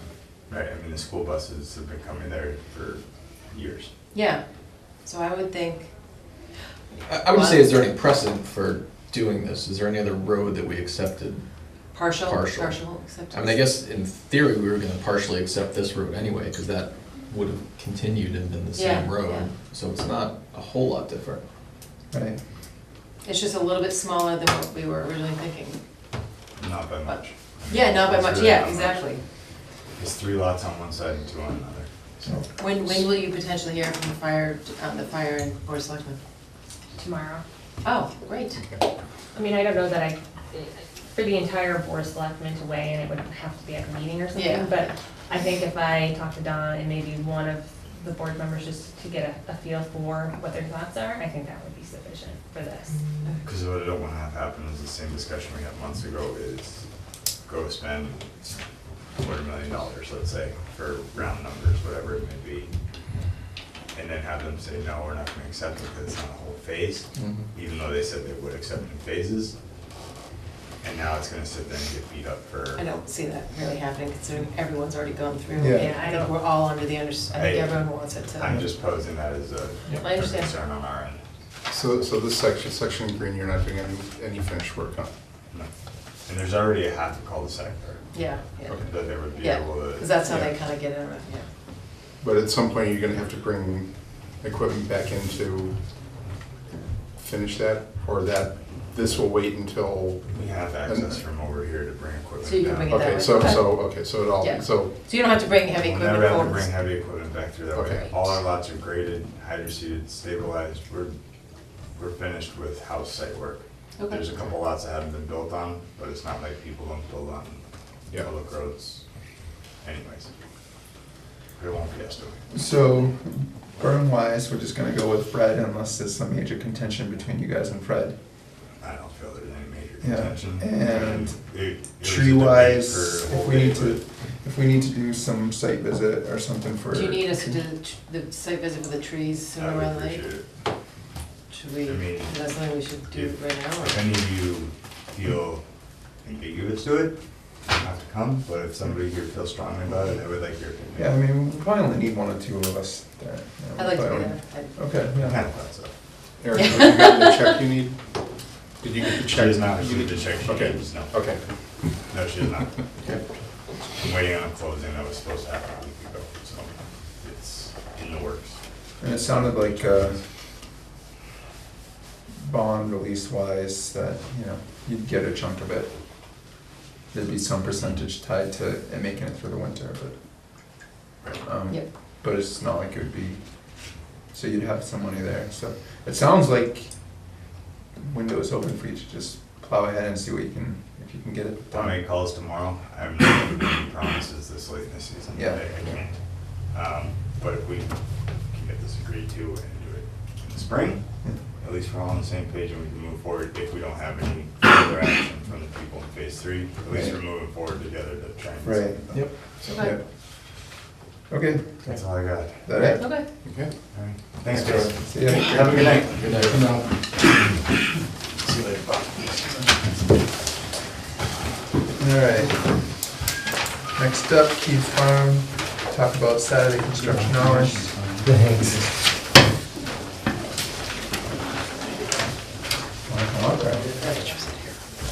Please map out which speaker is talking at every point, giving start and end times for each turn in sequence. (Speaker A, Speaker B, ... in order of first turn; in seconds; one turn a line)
Speaker A: 0.5-3.9
Speaker B: 4.1-4.4
Speaker B: 5.0-5.9
Speaker C: 7.0-11.4
Speaker B: 7.2-7.7
Speaker B: 11.9-13.6
Speaker C: 12.2-21.4
Speaker B: 18.7-19.5
Speaker D: 22.1-22.4
Speaker B: 23.2-25.8
Speaker A: 26.6-29.0
Speaker B: 27.1-29.2
Speaker A: 30.0-32.5
Speaker B: 32.6-36.2
Speaker E: 37.0-37.4
Speaker B: 37.8-38.6
Speaker F: 38.5-38.8
Speaker E: 39.3-53.0
Speaker B: 44.3-44.9
Speaker A: 53.4-56.8
Speaker A: 57.4-58.6
Speaker A: 59.1-62.7
Speaker A: 63.9-69.5
Speaker A: 70.8-72.9
Speaker B: 72.8-78.6
Speaker D: 75.6-75.9
Speaker E: 75.7-76.4
Speaker A: 77.3-81.2
Speaker B: 79.9-80.5
Speaker F: 81.7-85.1
Speaker A: 86.2-88.1
Speaker B: 88.1-91.5
Speaker A: 88.7-90.5
Speaker F: 92.2-95.8
Speaker F: 97.2-101.2
Speaker A: 100.3-103.5
Speaker B: 102.4-103.9
Speaker F: 102.9-104.9
Speaker B: 104.4-106.7
Speaker A: 105.7-111.1
Speaker F: 107.7-108.1
Speaker A: 111.9-119.0
Speaker A: 119.8-120.3
Speaker A: 121.6-122.4
Speaker D: 122.5-128.2
Speaker A: 128.8-134.0
Speaker D: 130.0-131.4
Speaker D: 132.0-137.6
Speaker B: 136.9-140.2
Speaker A: 139.6-140.4
Speaker B: 141.5-144.0
Speaker A: 141.8-142.4
Speaker A: 143.0-145.6
Speaker A: 146.2-147.2
Speaker A: 147.7-151.2
Speaker D: 151.0-155.4
Speaker B: 153.8-154.7
Speaker A: 155.1-155.9
Speaker F: 156.4-158.0
Speaker B: 156.6-157.3
Speaker F: 158.8-161.4
Speaker A: 159.2-161.3
Speaker A: 162.1-162.8
Speaker A: 164.0-170.2
Speaker D: 169.0-170.2
Speaker D: 172.3-175.9
Speaker D: 177.1-180.2
Speaker D: 181.4-186.9
Speaker D: 188.0-192.1
Speaker A: 191.7-196.2
Speaker D: 195.3-196.0
Speaker A: 196.7-197.9
Speaker A: 198.5-201.0
Speaker A: 201.6-209.2
Speaker D: 208.6-209.1
Speaker C: 209.1-209.9
Speaker D: 209.7-210.0
Speaker D: 211.3-213.3
Speaker A: 211.9-212.9
Speaker F: 213.4-213.7
Speaker A: 213.9-216.6
Speaker D: 214.7-215.6
Speaker F: 215.5-215.8
Speaker C: 216.1-216.8
Speaker C: 218.4-218.9
Speaker D: 222.0-222.8
Speaker D: 223.9-227.9
Speaker D: 233.0-233.9
Speaker B: 233.9-234.8